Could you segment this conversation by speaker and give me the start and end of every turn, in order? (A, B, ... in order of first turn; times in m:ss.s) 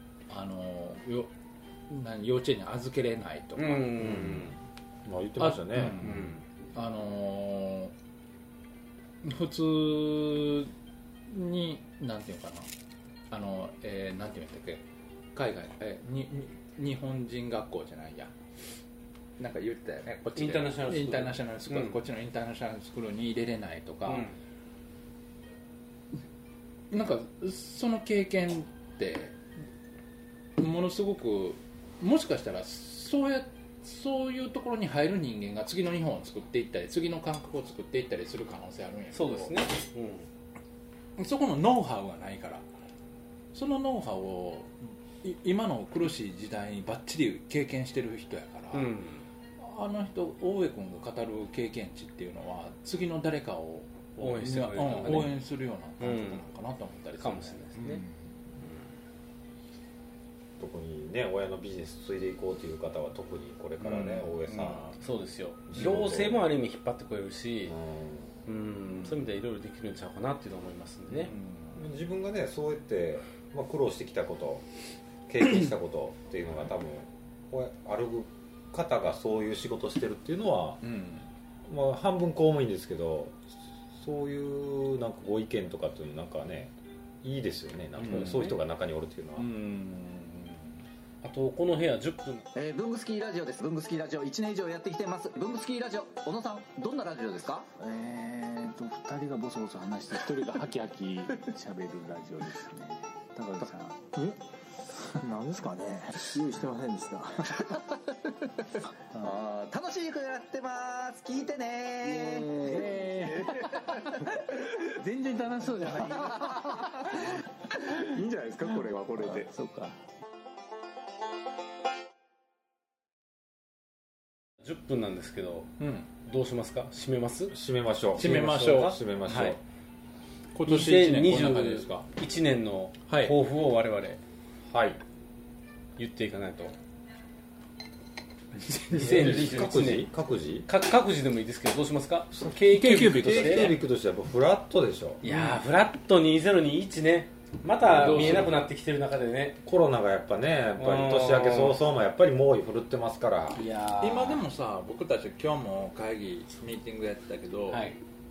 0:00.3-0:01.3 A
0:01.9-0:04.2 A
0:03.6-0:04.5 B
0:04.0-0:04.5 C
0:05.0-0:06.3 C
0:05.4-0:06.2 A
0:06.0-0:06.4 B
0:06.7-0:07.9 A
0:09.2-0:10.7 A
0:11.3-0:12.7 A
0:13.3-0:14.8 A
0:15.3-0:18.3 A
0:19.4-0:24.3 A
0:20.4-0:22.0 B
0:24.0-0:24.3 B
0:26.9-0:29.4 A
0:30.6-0:39.6 A
0:39.1-0:40.2 B
0:41.2-0:42.6 A
0:43.5-0:48.9 A
0:48.7-0:49.2 B
0:49.6-0:58.2 A
0:54.2-0:55.4 B
0:56.0-0:56.4 B
0:57.2-0:58.0 B
1:00.6-1:05.0 C
1:03.8-1:04.9 A
1:05.0-1:07.7 B
1:05.7-1:06.4 C
1:07.7-1:08.3 C
1:08.4-1:11.3 B
1:11.1-1:11.8 A
1:11.7-1:14.6 C
1:15.3-1:20.8 C
1:20.8-1:21.3 A
1:21.7-1:23.4 C
1:24.0-1:26.7 C
1:27.2-1:29.5 C
1:28.0-1:28.6 A
1:29.4-1:30.8 A
1:31.2-1:32.4 B
1:32.6-1:37.6 D
1:37.7-1:49.3 E
1:49.4-1:52.8 D
1:52.0-2:00.0 E
2:04.6-2:05.7 B
2:05.8-2:06.1 A
2:06.2-2:07.5 B
2:07.5-2:09.6 C
2:08.1-2:09.0 A
2:08.2-2:09.6 B
2:10.5-2:12.0 A
2:10.6-2:14.2 B
2:13.1-2:13.3 A
2:14.7-2:15.0 C
2:16.0-2:16.7 B
2:18.9-2:20.7 C
2:18.9-2:20.1 B
2:19.0-2:19.3 A
2:20.7-2:23.7 B
2:22.3-2:25.2 C
2:22.7-2:23.8 A
2:25.2-2:29.6 B
2:25.2-2:25.6 A
2:27.8-2:28.6 C
2:28.0-2:28.5 A
2:29.6-2:33.6 C
2:30.8-2:31.8 B
2:33.5-2:34.4 B
2:34.0-2:37.8 A
2:37.7-2:38.0 B